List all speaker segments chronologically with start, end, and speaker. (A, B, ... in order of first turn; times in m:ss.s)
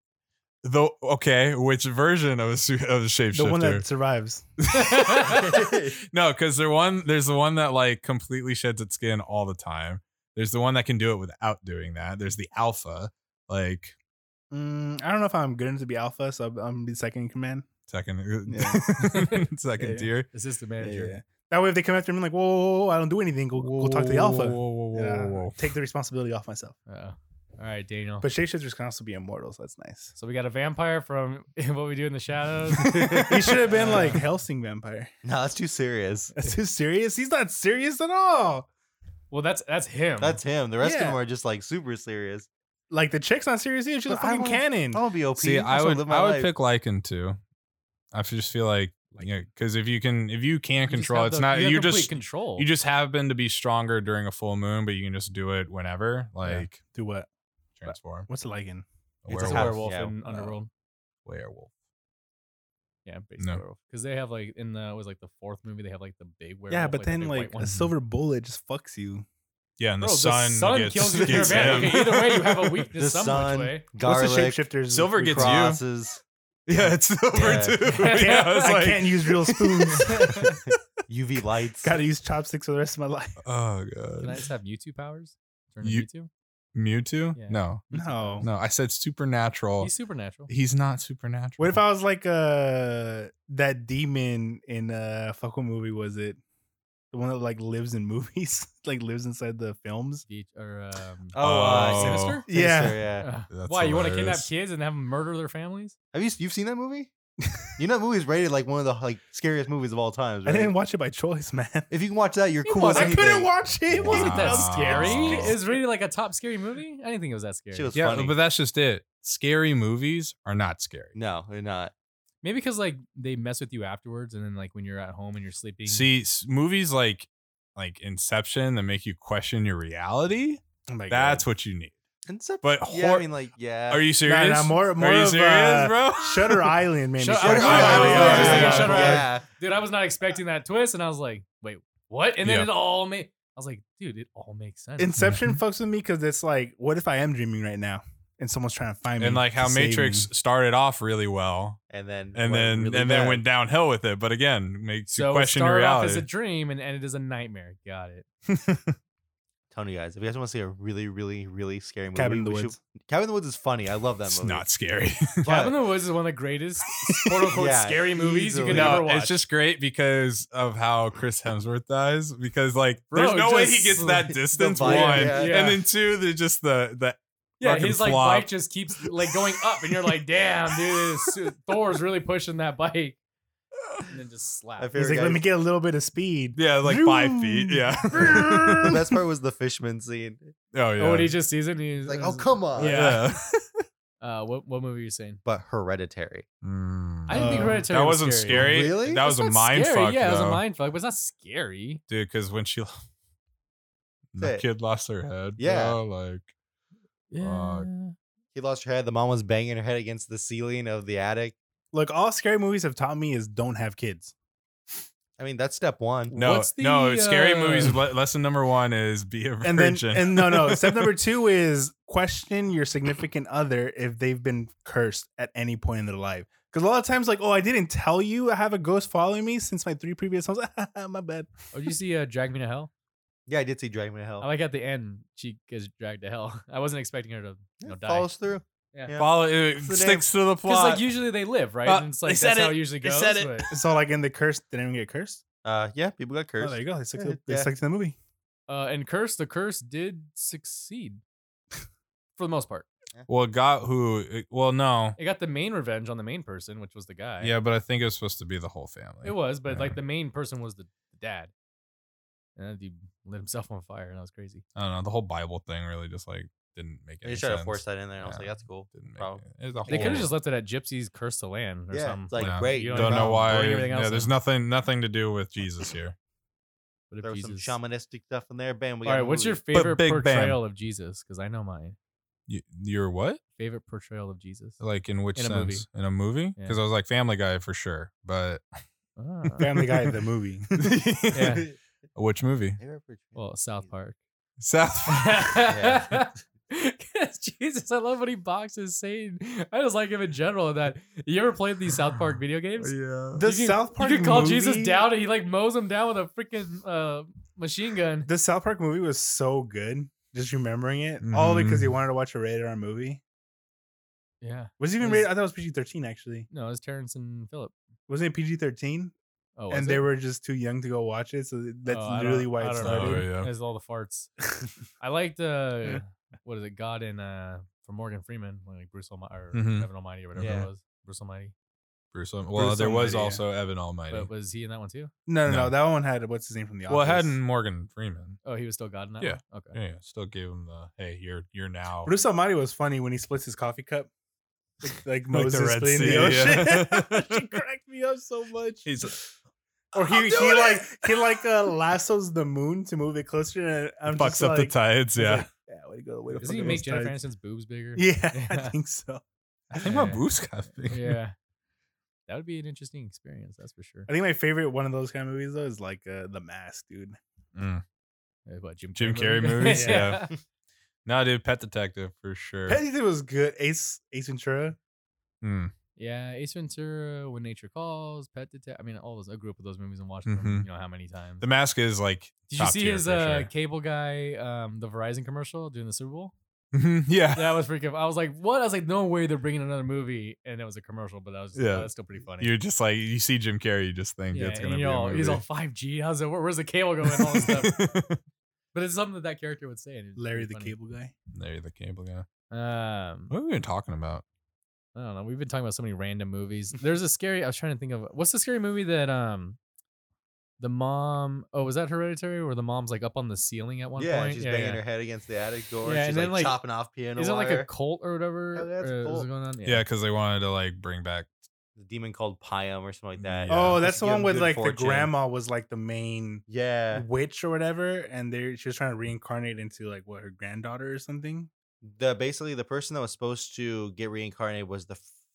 0:00.6-0:03.8 A
0:03.3-0:04.5 B
0:04.6-0:14.0 A
0:04.7-0:05.5 C
0:05.2-0:06.0 D
0:14.5-0:17.7 B
0:17.9-0:20.3 A
0:18.5-0:18.8 B
0:19.0-0:19.4 C
0:19.8-0:20.1 B
0:20.3-0:21.2 C
0:20.8-0:26.8 B
0:23.6-0:25.6 A
0:26.9-0:28.3 C
0:28.2-0:30.1 B
0:30.2-0:34.2 C
0:32.8-0:34.1 D
0:33.2-0:35.1 B
0:35.2-0:36.3 D
0:36.4-0:38.7 B
0:39.3-0:40.4 C
0:40.2-0:42.5 D
0:40.8-0:41.2 B
0:42.9-0:45.0 B
0:44.1-0:46.5 D
0:45.4-0:47.4 A
0:48.1-0:56.8 A
0:50.8-0:52.7 C
0:56.4-0:57.3 B
0:57.8-0:58.3 A
0:57.9-0:58.8 B
0:59.2-1:00.5 A
0:59.3-1:00.1 D
0:59.4-1:00.7 C
1:01.2-1:01.7 A
1:03.0-1:07.7 C
1:06.7-1:09.2 B
1:07.6-1:07.9 A
1:09.8-1:12.9 A
1:10.0-1:13.9 C
1:11.3-1:11.9 D
1:13.0-1:16.2 D
1:14.0-1:15.6 B
1:14.9-1:15.8 A
1:16.7-1:20.6 A
1:17.3-1:17.8 D
1:17.8-1:18.7 C
1:18.0-1:20.5 B
1:19.9-1:20.6 C
1:21.1-1:21.9 D
1:21.8-1:23.4 B
1:23.4-1:24.4 A
1:24.2-1:26.3 C
1:26.7-1:27.8 A
1:27.4-1:28.5 C
1:27.9-1:28.5 B
1:28.4-1:29.9 A
1:29.8-1:30.5 C
1:30.5-1:31.8 A
1:31.6-1:36.4 B
1:37.1-1:40.2 B
1:40.3-1:42.5 C
1:41.3-1:43.3 D
1:41.4-1:42.4 A
1:42.5-1:43.0 B
1:43.2-1:46.0 C
1:43.5-1:44.5 A
1:46.1-1:47.1 D
1:47.4-1:47.7 B
1:47.8-1:50.7 D
1:50.4-1:51.9 B
1:51.9-1:53.5 D
1:52.6-1:53.3 C
1:52.8-1:55.6 B
1:54.0-1:57.9 C
1:54.0-1:55.6 A
1:57.7-1:58.4 D
1:57.9-2:01.2 A
2:01.1-2:01.9 D
2:02.4-2:06.1 C
2:05.8-2:11.9 A
2:10.9-2:11.4 B
2:12.3-2:14.1 D
2:12.6-2:13.3 A
2:13.9-2:16.8 A
2:14.2-2:19.2 B
2:17.2-2:25.2 C
2:17.4-2:19.4 D
2:17.4-2:19.2 A
2:22.4-2:22.7 A
2:25.0-2:30.3 B
2:25.2-2:25.6 A
2:29.2-2:31.8 A
2:31.9-2:33.4 D
2:32.3-2:36.2 A
2:35.1-2:38.2 C
2:38.5-2:39.0 A
2:39.7-2:44.6 D
2:42.1-2:42.8 B
2:44.3-2:45.5 A
2:45.4-2:49.4 C
2:45.4-2:45.8 D
2:47.5-2:49.0 D
2:48.7-2:58.5 A
2:53.1-2:55.8 C
2:54.2-2:55.7 D
2:57.6-3:03.2 C
2:59.0-3:00.2 A
3:00.7-3:01.3 A
3:04.1-3:04.9 C
3:04.8-3:05.4 D
3:04.9-3:09.1 B
3:06.6-3:09.0 A
3:08.8-3:10.5 D
3:10.7-3:11.3 A
3:11.0-3:13.3 C
3:12.0-3:13.1 D
3:12.8-3:13.8 A
3:14.2-3:15.4 C
3:15.4-3:16.4 D
3:16.6-3:20.6 A
3:17.3-3:22.0 C
3:17.3-3:17.9 B
3:18.5-3:19.2 D
3:22.1-3:23.0 A
3:24.3-3:26.5 A
3:24.4-3:24.6 D
3:25.6-3:26.0 D
3:27.3-3:28.1 C
3:27.4-3:27.9 A
3:28.5-3:31.5 D
3:31.9-3:34.3 B
3:35.4-3:36.3 D
3:36.3-3:38.0 C
3:36.3-3:41.1 A
3:39.6-3:51.5 B
3:51.7-3:52.9 C
3:53.5-3:54.5 D
3:54.4-3:58.3 C
3:57.8-4:00.2 D
3:59.2-4:01.1 A
4:00.6-4:03.6 C
4:01.8-4:03.8 A
4:03.7-4:05.4 B
4:05.6-4:07.7 D
4:06.6-4:08.2 B
4:08.7-4:11.2 C
4:12.4-4:12.9 C
4:13.3-4:15.2 A
4:15.2-4:17.5 C
4:17.4-4:20.0 A
4:19.2-4:21.5 C
4:22.6-4:24.6 C
4:24.8-4:30.3 A
4:27.2-4:30.3 D
4:29.9-4:34.3 C
4:31.9-4:33.5 D
4:32.4-4:36.2 A
4:37.1-4:37.8 C
4:37.2-4:39.6 D
4:39.0-4:42.0 C
4:39.7-4:40.6 A
4:42.5-4:43.4 A
4:43.6-4:44.8 C
4:44.8-4:48.6 A
4:45.3-4:45.8 C
4:49.2-4:49.7 C
4:49.6-4:50.9 B
4:49.6-4:50.1 A
4:50.7-4:52.8 A
4:51.3-4:51.7 C
4:52.8-4:53.9 D
4:53.3-4:54.2 C
4:54.6-4:55.6 A
4:55.1-5:08.3 C
4:55.7-4:56.1 D
5:01.9-5:02.2 A
5:02.8-5:03.4 A
5:03.4-5:05.0 B
5:08.3-5:13.2 B
5:11.2-5:12.0 A
5:14.4-5:15.3 C
5:14.8-5:16.5 B
5:16.5-5:17.7 C
5:18.1-5:19.1 B
5:19.6-5:20.1 C
5:19.7-5:23.3 B
5:21.8-5:24.3 C
5:22.8-5:23.5 A
5:25.0-5:31.5 C
5:29.5-5:30.7 A
5:30.4-5:30.7 D
5:32.1-5:34.3 A
5:32.5-5:33.4 B
5:34.1-5:35.1 C
5:35.3-5:37.4 B
5:35.4-5:35.7 A
5:36.9-5:38.4 A
5:38.4-5:39.8 C
5:39.2-5:42.1 A
5:42.0-5:44.1 B
5:44.8-5:48.9 B
5:45.3-5:47.5 A
5:48.8-5:49.2 A
5:49.9-5:57.2 B
5:50.2-5:50.6 A
5:54.1-5:55.5 A
5:56.4-5:58.7 C
5:58.0-5:59.2 B
5:59.7-6:01.2 A
5:59.8-6:00.2 C
6:00.8-6:01.3 C
6:02.3-6:04.1 C
6:04.1-6:07.2 B
6:07.5-6:07.8 A
6:08.4-6:10.3 C
6:09.0-6:10.3 A
6:09.6-6:10.1 B
6:11.0-6:12.8 A
6:12.7-6:14.8 B
6:15.4-6:15.7 A
6:16.0-6:21.4 C
6:20.2-6:20.6 A
6:21.4-6:23.5 A
6:22.5-6:26.3 C
6:26.7-6:27.6 A
6:27.3-6:32.5 C
6:31.6-6:35.4 A
6:34.3-6:37.8 C
6:37.1-6:38.2 A
6:38.7-6:40.8 C
6:40.2-6:41.1 B
6:41.3-6:42.2 A
6:42.5-6:43.3 C
6:43.3-6:44.2 A
6:44.9-6:49.6 C
6:50.6-6:54.8 C
6:54.0-6:57.7 D
6:55.8-6:56.6 C
6:57.1-6:59.8 C
6:58.5-6:59.3 D
6:59.6-7:01.3 A
7:01.8-7:05.1 D
7:03.2-7:03.8 A
7:03.5-7:11.5 B
7:06.5-7:07.0 D
7:11.8-7:15.1 D